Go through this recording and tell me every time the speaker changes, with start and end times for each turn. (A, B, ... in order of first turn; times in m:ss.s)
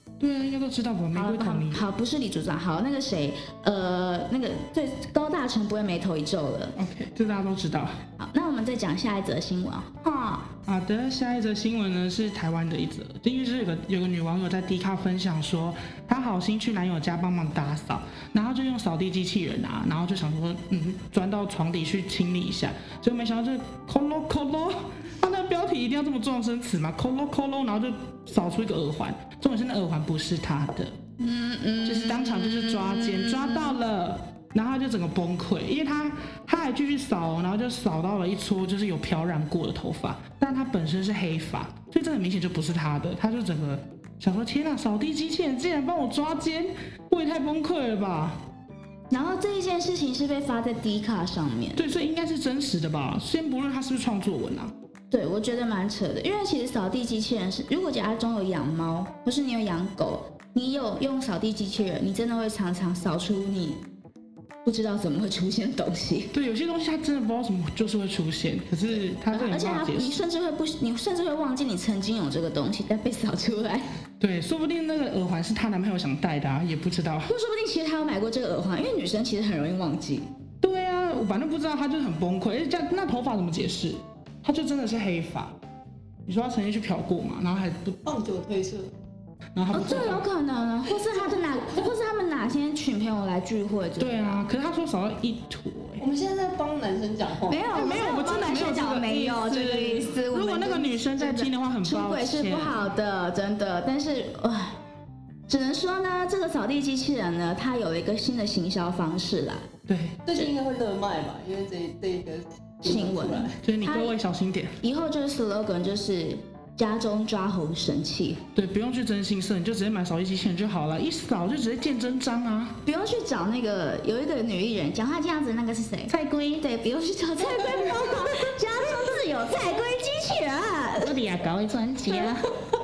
0:00.2-0:01.9 A
0:01.1-0:06.8 B
0:06.8-0:08.0 A
0:08.2-0:10.5 B
0:10.7-0:31.0 A
0:31.2-0:33.8 B
0:31.8-0:48.4 A
0:49.1-0:51.8 B
0:51.8-0:54.7 A
0:55.1-1:03.8 B
1:04.6-1:06.3 B
1:06.3-1:10.2 A
1:09.3-1:13.9 B
1:14.2-1:17.3 A
1:17.3-1:20.2 B
1:20.6-1:25.5 A
1:26.3-1:28.0 A
1:28.0-1:28.9 C
1:29.6-1:30.2 A
1:29.7-1:34.4 B
1:34.0-1:36.0 A
1:36.0-1:37.7 C
1:37.5-1:44.8 B
1:37.7-1:42.9 A
1:45.5-1:49.6 B
1:49.9-1:50.5 A
1:50.3-1:53.6 C
1:52.8-1:54.2 B
1:53.6-1:54.8 A
1:54.8-1:58.4 B
1:58.6-2:02.8 A
2:02.8-2:11.2 B
2:06.1-2:06.6 A
2:07.5-2:08.3 A
2:11.0-2:12.4 A
2:12.0-2:12.5 B